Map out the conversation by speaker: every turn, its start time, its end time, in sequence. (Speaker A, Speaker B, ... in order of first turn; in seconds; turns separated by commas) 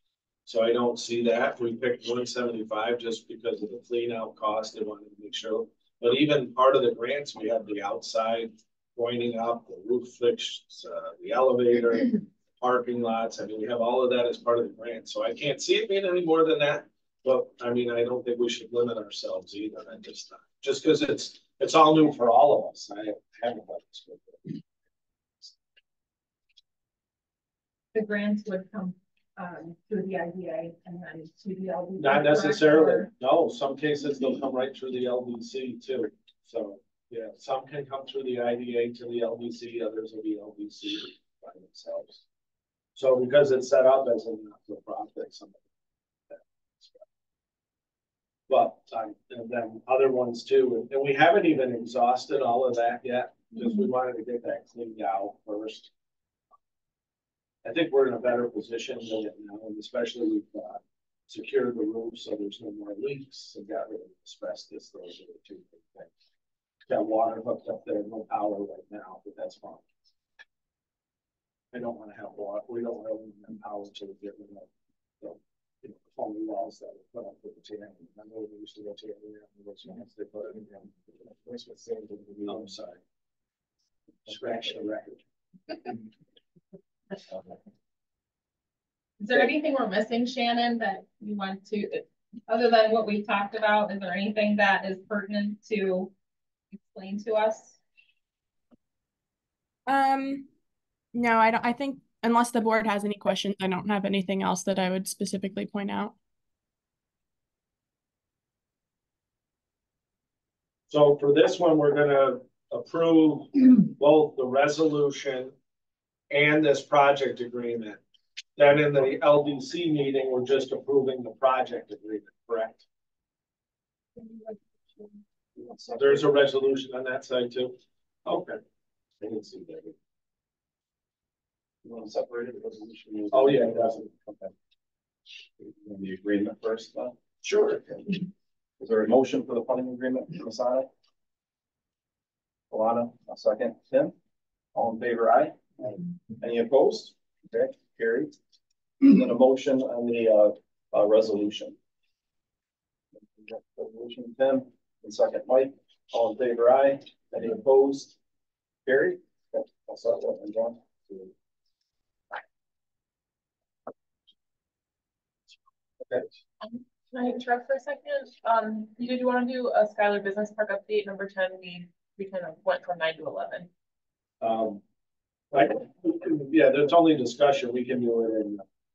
Speaker A: 0.5-24.6, Speaker B: 27.9-33.1, Speaker A: 32.0-42.2, Speaker A: 43.0-45.6, Speaker A: 46.3-47.0, Speaker A: 48.5-55.9, Speaker A: 57.6-66.1, Speaker A: 66.9-69.8, Speaker A: 71.7-74.7, Speaker A: 75.2-81.2, Speaker C: 81.4-82.7, Speaker A: 82.5-83.0, Speaker A: 84.3-85.2, Speaker B: 89.2-96.1, Speaker B: 96.7-97.8, Speaker D: 99.9-100.5, Speaker D: 101.1-106.1, Speaker A: 110.9-115.5, Speaker A: 116.3-118.0, Speaker A: 118.6-122.8, Speaker C: 125.6-126.2, Speaker A: 125.9-128.6, Speaker A: 129.2-129.9, Speaker C: 131.8-134.5, Speaker A: 133.3-134.1, Speaker C: 135.6-137.2, Speaker A: 137.4-137.8, Speaker C: 137.8-138.1, Speaker C: 138.8-140.9, Speaker C: 142.7-144.1, Speaker C: 144.8-148.4, Speaker C: 149.0-151.8, Speaker C: 153.4-158.2, Speaker C: 158.8-161.3, Speaker E: 166.6-173.7, Speaker A: 174.4-174.8, Speaker A: 175.5-178.7